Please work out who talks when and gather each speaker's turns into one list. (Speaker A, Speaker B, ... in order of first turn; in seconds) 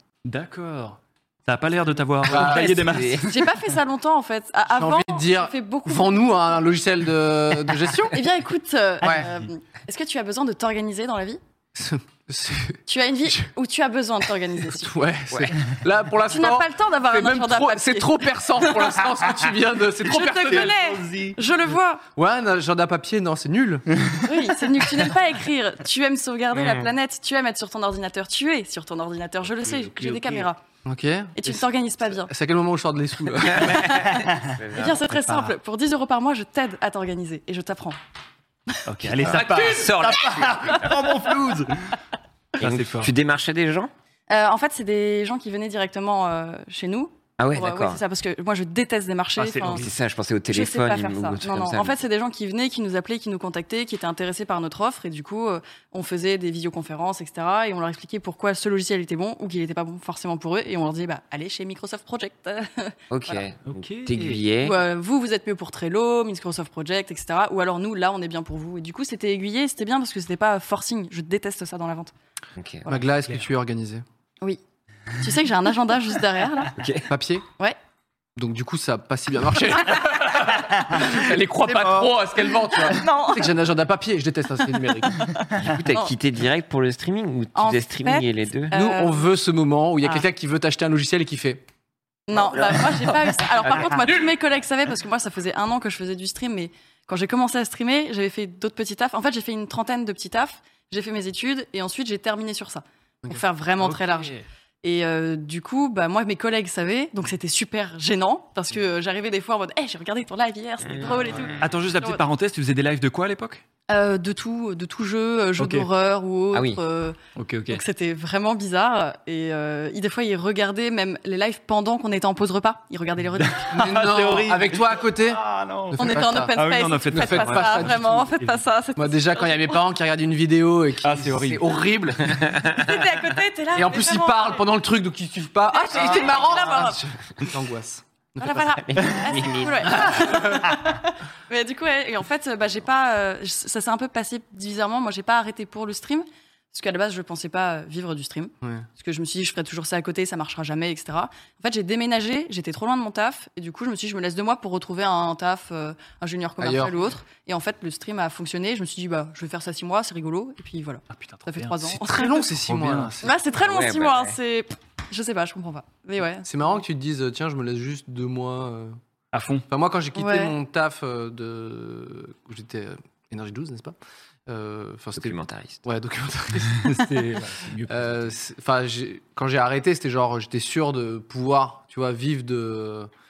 Speaker A: 0.2-3.5, 20.1-21.4, 24.0-24.2, 29.6-30.5, 33.8-34.6, 35.1-35.5, 38.9-41.9, 42.6-43.1, 49.4-49.9, 63.7-64.4, 81.0-82.4, 103.8-104.5, 111.6-113.6, 115.6-115.9, 117.4-117.8, 123.4-128.6, 131.0-131.8, 161.1-163.1, 169.3-169.7, 176.8-178.3
Speaker B: 2.2-3.0, 4.7-8.2, 9.0-9.3, 11.8-13.5, 14.7-20.7, 22.1-23.9, 30.9-33.9, 39.3-39.8, 72.9-74.0, 77.1-77.5, 78.4-85.3, 88.7-91.6, 111.0-111.5, 123.7-125.4, 125.9-126.5, 127.1-128.2, 129.0-132.4, 133.8-138.8, 140.1-140.7, 148.6-148.9, 156.6-156.9, 162.1-163.4, 166.4-169.0, 169.7-174.0, 174.5-177.2, 177.9-183.1
Speaker C: 2.3-3.3, 26.6-26.9, 33.6-35.1, 39.0-40.9, 42.6-43.9, 47.4-48.0, 49.7-52.0, 63.1-64.8, 72.6-72.8, 76.8-77.1, 85.5-88.7, 93.7-94.2, 110.8-111.5, 116.5-116.8, 132.3-132.9, 138.8-140.2, 163.6-164.4, 175.2-175.8
Speaker D: 3.2-6.3, 8.1-11.4, 12.9-14.9, 16.2-18.7, 20.0-22.0, 24.2-30.6, 31.4-32.3, 33.6-34.2, 34.7-38.0, 44.3-49.9, 50.5-63.4, 64.6-72.1, 75.2-76.7, 82.9-83.5, 85.4-86.1, 87.5-89.3, 92.3-104.3, 104.8-112.2, 113.9-117.2, 117.7-123.7, 126.0-129.8, 132.6-134.7, 135.7-137.0, 138.4-162.4, 163.2-166.5, 170.2-170.5